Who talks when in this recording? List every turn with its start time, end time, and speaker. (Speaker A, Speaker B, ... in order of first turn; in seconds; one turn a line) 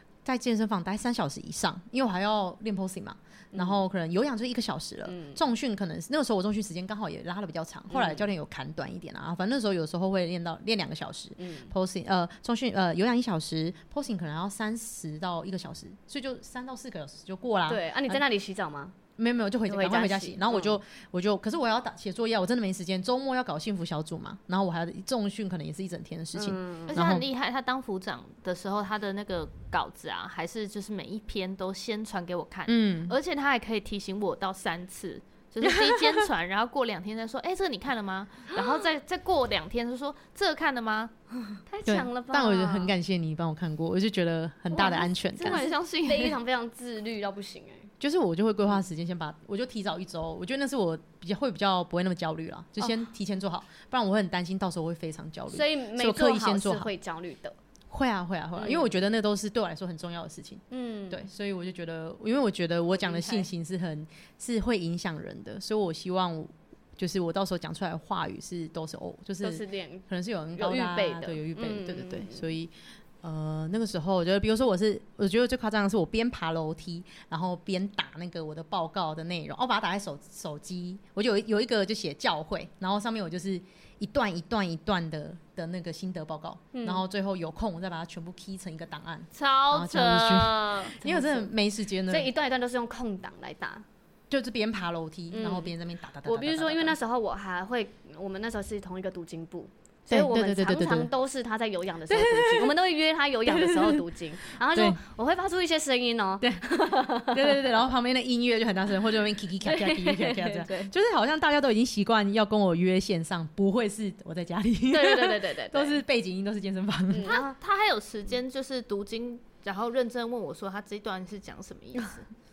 Speaker A: 0.2-18.2
Speaker B: 3.5-3.8
Speaker B: 5.1-5.4
Speaker B: 7.9-8.2
Speaker B: 11.4-11.7
Speaker B: 17.7-18.9
Speaker A: 19.2-27.2
Speaker B: 19.7-20.8
Speaker B: 26.3-27.0
Speaker C: 26.9-41.1
Speaker A: 32.7-33.1
Speaker A: 35.6-36.3
Speaker B: 41.7-42.9
Speaker A: 41.9-45.6
Speaker C: 44.7-46.4
Speaker B: 44.7-47.9
Speaker A: 48.0-56.9
Speaker B: 55.5-57.5
Speaker A: 57.9-92.3
Speaker B: 58.5-58.9
Speaker B: 60.7-61.2
Speaker B: 62.9-63.5
Speaker B: 69.4-72.5
Speaker B: 86.7-87.0
Speaker C: 89.3-90.9
Speaker B: 91.0-91.5
Speaker B: 92.1-93.8
Speaker A: 94.3-97.0
Speaker B: 95.3-95.7
Speaker B: 96.2-107.6
Speaker A: 100.1-101.1
Speaker A: 102.1-102.8
Speaker A: 103.5-104.0
Speaker A: 104.7-105.0
Speaker A: 106.4-117.4
Speaker B: 109.6-110.9
Speaker B: 114.9-116.0
Speaker B: 117.1-117.5
Speaker C: 117.2-122.3